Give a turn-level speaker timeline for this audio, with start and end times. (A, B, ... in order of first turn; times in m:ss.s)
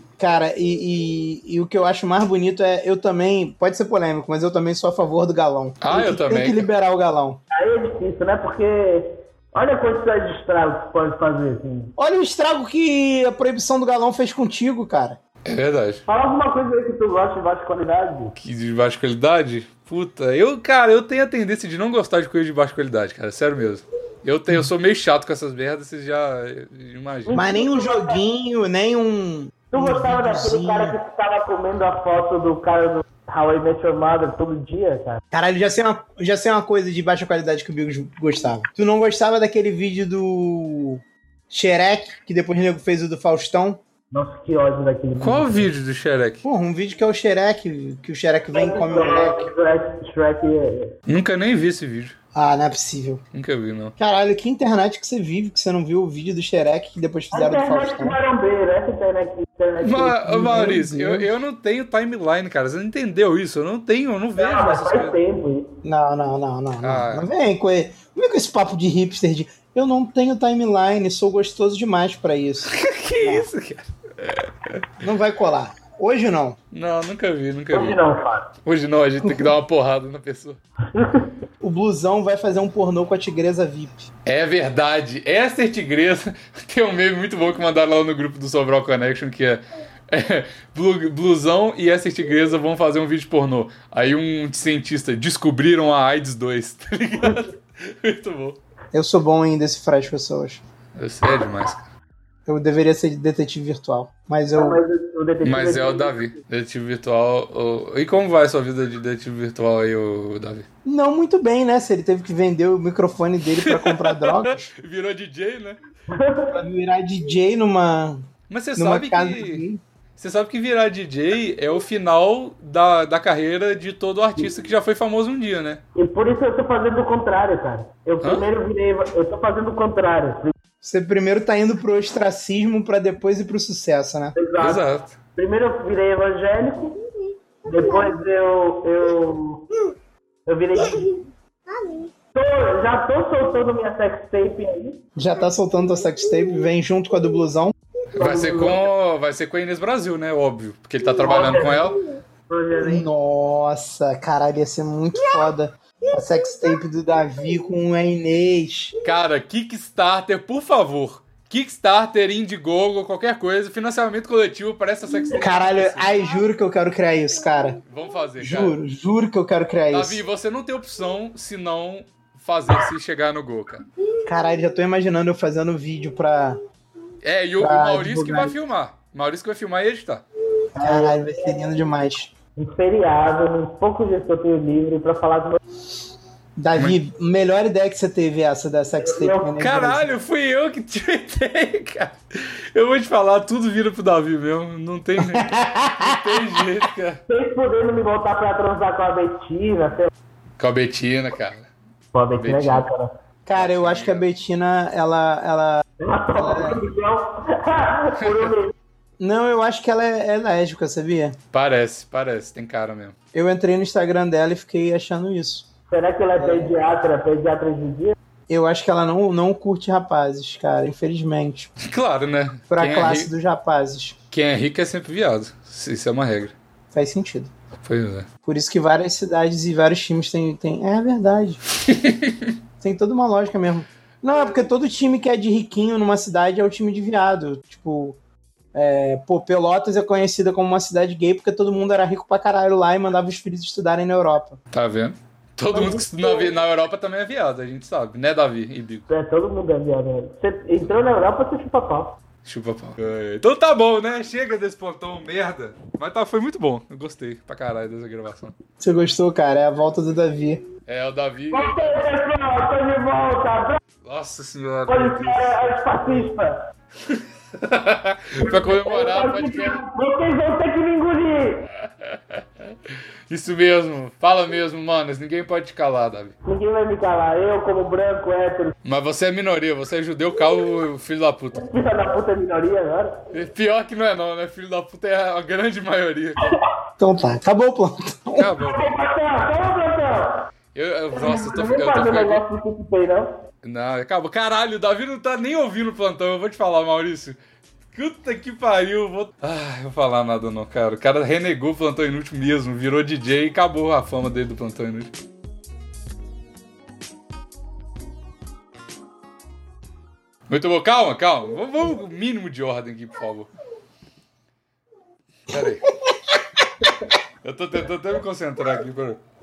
0:00.2-0:07.4 A
0:05.8-0:06.6 B
0:07.5-0:11.9 C
0:12.0-0:15.2 A
0:15.4-0:16.0 B
0:16.1-0:18.3 C
0:18.4-0:27.4 B
0:27.3-0:28.2 C
0:27.3-0:31.0 A
0:29.7-0:35.2 C
0:35.3-0:43.8 A
0:44.1-0:45.7 C
0:45.2-0:46.4 B
0:46.4-0:49.5 A
0:48.5-0:51.0 C
0:51.1-0:52.2 B
0:52.3-0:53.2 A
0:53.3-0:53.9 B
0:54.0-0:58.2 A
0:57.3-1:00.2 C
0:59.8-1:05.2 B
1:00.2-1:01.3 A
1:04.4-1:05.7 C
1:05.8-1:13.5 A
1:06.8-1:07.3 B
1:12.7-1:14.9 B
1:15.0-1:16.6 A
1:16.7-1:18.0 B
1:17.7-1:18.5 C
1:18.6-1:20.6 B
1:20.9-1:21.3 C
1:21.6-1:24.1 A
1:24.2-1:38.6 B
1:38.9-1:40.6 A
1:40.9-1:41.9 B
1:42.5-1:44.8 A
1:44.5-1:46.2 C
1:45.4-1:50.7 B
1:50.8-1:54.7 A
1:53.6-1:55.8 B
1:56.1-1:56.6 C
1:56.5-1:58.2 A
1:58.5-1:59.6 B
1:58.8-1:59.8 A
2:00.2-2:05.8 B
2:05.9-2:10.5 C
2:08.2-2:08.5 B
2:10.8-2:14.3 A
2:14.4-2:14.8 C
2:14.6-2:15.2 B
2:15.3-2:17.0 C
2:17.6-2:19.7 C
2:20.4-2:21.2 C
2:22.3-2:25.0 C
2:25.2-2:27.7 A
2:28.1-2:32.0 B
2:28.2-2:28.8 C
2:31.2-2:32.0 C
2:32.5-2:33.0 C
2:32.8-2:38.9 A
2:39.0-2:46.1 B
2:45.3-2:47.8 A
2:47.8-2:48.8 B
2:48.4-2:50.2 A
2:49.9-2:53.8 B
2:54.2-2:56.6 A
2:57.2-3:00.2 B
2:57.6-2:58.5 A
3:00.7-3:01.3 C
3:00.8-3:02.3 A
3:02.6-3:05.6 C
3:06.6-3:10.1 A
3:09.0-3:09.5 C
3:09.6-3:17.2 B
3:15.2-3:16.4 A
3:17.3-3:20.1 C
3:20.6-3:21.7 B
3:22.1-3:23.1 C
3:22.3-3:22.9 B
3:23.4-3:25.8 A
3:23.5-3:24.2 B
3:26.0-3:28.7 C
3:26.3-3:26.8 A
3:28.2-3:28.5 B
3:29.2-3:31.4 A
3:31.5-3:33.2 B
3:33.3-3:35.7 A
3:35.9-3:38.1 C
3:36.4-3:36.8 A
3:38.5-3:41.7 A
3:41.8-3:43.3 B
3:42.7-3:44.2 A
3:44.3-3:46.5 B
3:46.9-3:47.5 A
3:47.8-3:48.3 B
3:48.4-3:51.6 A
3:51.8-3:52.5 B
3:52.8-3:58.2 A
3:58.7-4:04.6 A
4:04.7-4:09.0 B
4:05.7-4:06.5 C
4:09.1-4:12.2 C
4:12.4-4:18.5 B
4:18.8-4:20.6 A
4:20.9-4:22.1 B
4:21.5-4:23.8 C
4:24.0-4:25.5 B
4:24.9-4:26.6 C
4:27.1-4:29.8 B
4:28.4-4:31.7 C
4:31.8-4:36.3 B
4:36.4-4:38.7 C
4:38.8-4:41.7 B
4:41.6-4:43.2 C
4:43.3-4:46.6 B
4:47.0-4:48.5 A
4:48.4-4:48.9 B
4:48.7-4:50.5 C
4:50.7-4:52.4 B
4:51.1-4:53.3 C
4:53.6-4:57.4 B
4:57.9-5:05.1 B
5:10.5-5:13.5 B
5:15.5-5:15.9 B
5:17.4-5:19.2 B